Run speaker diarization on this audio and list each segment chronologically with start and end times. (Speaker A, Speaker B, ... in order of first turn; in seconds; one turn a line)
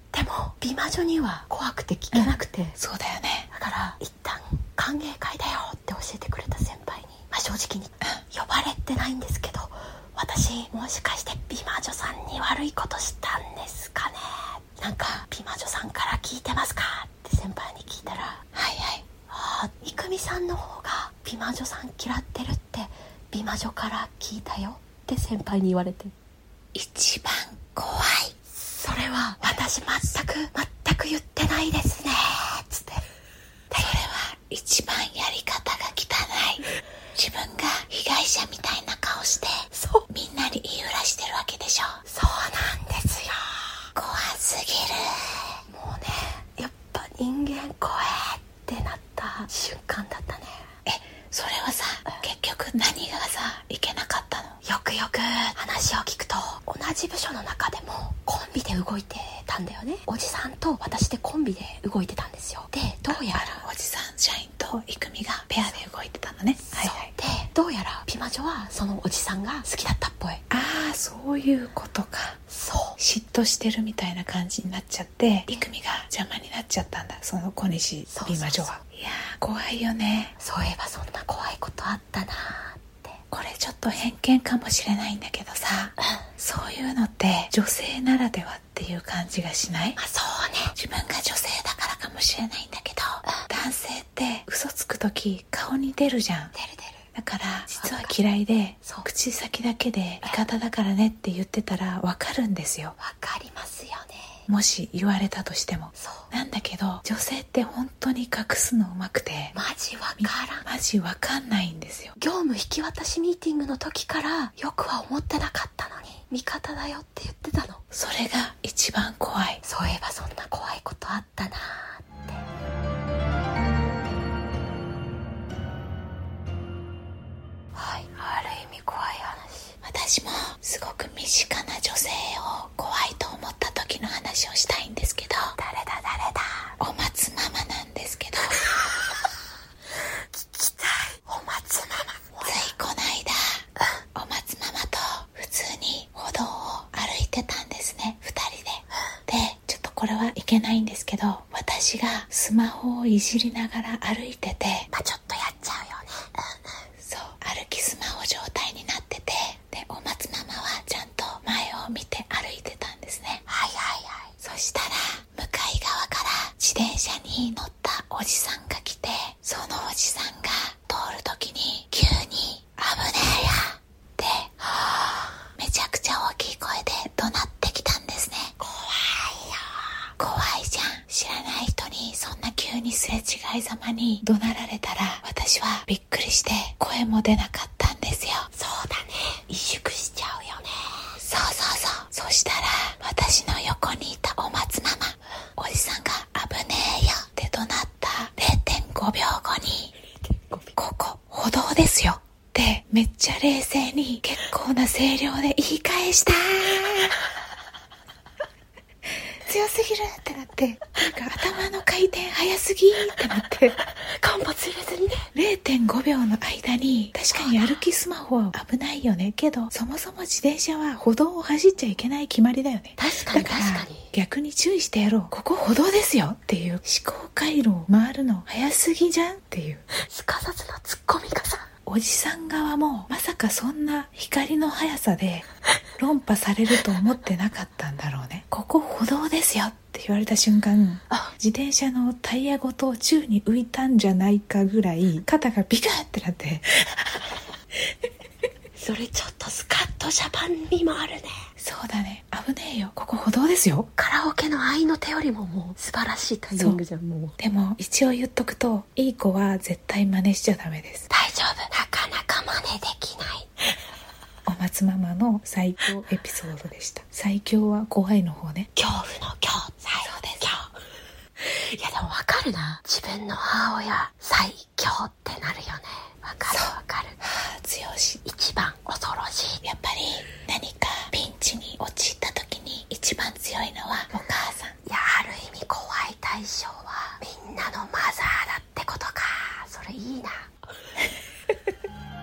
Speaker A: 0.1-2.8
Speaker B: 2.1-3.5
Speaker A: 3.5-18.4
Speaker B: 18.5-19.0
Speaker A: 19.3-26.1
Speaker B: 26.7-28.3
Speaker A: 28.5-33.0
Speaker A: 33.7-34.0
Speaker B: 33.8-42.0
Speaker A: 39.7-40.0
Speaker A: 42.1-43.7
Speaker B: 44.0-45.4
Speaker A: 45.7-50.7
Speaker B: 50.9-54.6
Speaker A: 54.6-63.6
Speaker B: 63.1-67.1
Speaker A: 66.7-70.4
Speaker B: 70.5-72.4
Speaker A: 72.5-73.0
Speaker B: 73.0-80.3
Speaker A: 78.1-78.8
Speaker A: 80.4-83.2
Speaker B: 83.3-90.0
Speaker A: 90.0-90.7
Speaker B: 90.8-96.5
Speaker A: 96.5-97.0
Speaker B: 97.2-103.0
Speaker A: 97.8-98.1
Speaker A: 98.8-99.1
Speaker A: 103.0-104.3
Speaker B: 104.5-109.5
Speaker A: 106.0-106.3
Speaker A: 109.5-110.7
Speaker B: 110.2-112.2
Speaker A: 112.2-117.8
Speaker B: 117.9-119.6
Speaker A: 119.6-122.4
Speaker A: 127.7-129.8
Speaker B: 129.8-135.6
Speaker A: 135.6-136.7
Speaker B: 136.8-138.7
Speaker A: 140.3-142.7
Speaker B: 142.4-154.9
Speaker A: 154.9-156.6
Speaker B: 157.0-163.4
Speaker A: 163.5-164.3
Speaker B: 164.4-174.7
Speaker B: 175.6-178.5
Speaker A: 178.6-179.9
Speaker B: 180.2-188.5
Speaker A: 188.5-191.1
Speaker B: 191.2-199.9
Speaker A: 200.2-200.8
Speaker B: 200.8-207.2
Speaker B: 209.5-213.8
Speaker A: 213.8-215.3
Speaker B: 215.3-229.8
Speaker A: 217.3-217.8
Speaker A: 223.0-224.1
Speaker A: 229.9-231.7
Speaker B: 231.9-235.5
Speaker B: 236.0-247.2
Speaker A: 248.8-251.3
Speaker B: 251.6-253.9
Speaker A: 254.0-257.4
Speaker B: 257.4-261.1
Speaker A: 261.1-263.5
Speaker B: 264.5-268.7
Speaker A: 268.8-270.7
Speaker B: 270.0-270.4
Speaker A: 271.4-277.2
Speaker B: 277.2-278.2
Speaker A: 278.2-279.6
Speaker B: 279.6-284.8
Speaker A: 284.9-290.5